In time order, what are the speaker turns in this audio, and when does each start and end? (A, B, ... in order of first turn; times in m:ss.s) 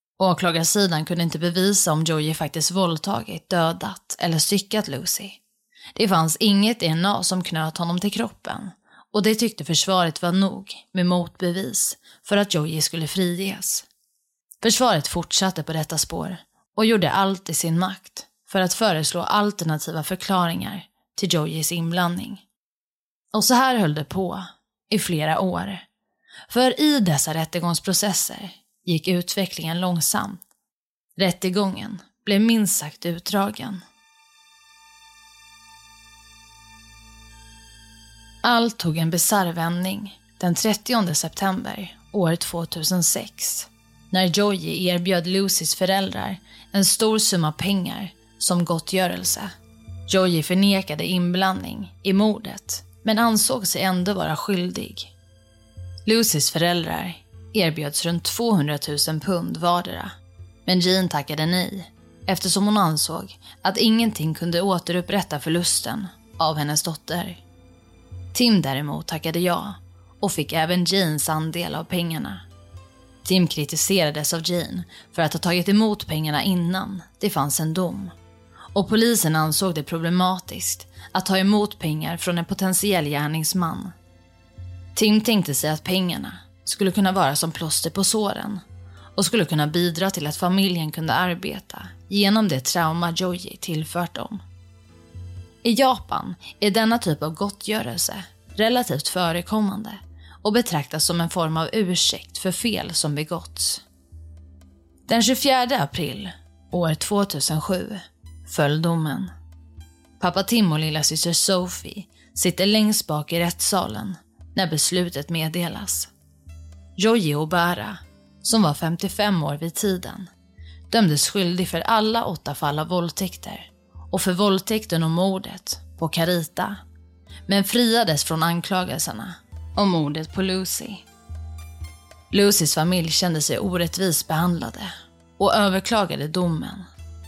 0:00.2-0:05.4 A
0:06.0-0:13.8 A
0:14.6-0:22.4 A
0:23.3-0:25.8 A
0:26.5-0:30.4 A
0:31.2-0:33.8 A
0:38.4-0:49.5 A
0:50.1-0:55.1 A
0:56.0-1:00.1 A
1:00.6-1:07.4 A
1:08.3-1:12.4 A
1:13.2-1:18.1 A
1:18.7-1:23.9 A
1:24.9-1:28.6 A
1:29.2-1:34.4 A
1:35.6-1:43.8 A
1:45.1-1:49.3 A
1:50.2-1:56.1 A
1:57.0-2:00.3 A
2:00.9-2:06.8 A
2:07.5-2:11.0 A
2:12.3-2:16.9 A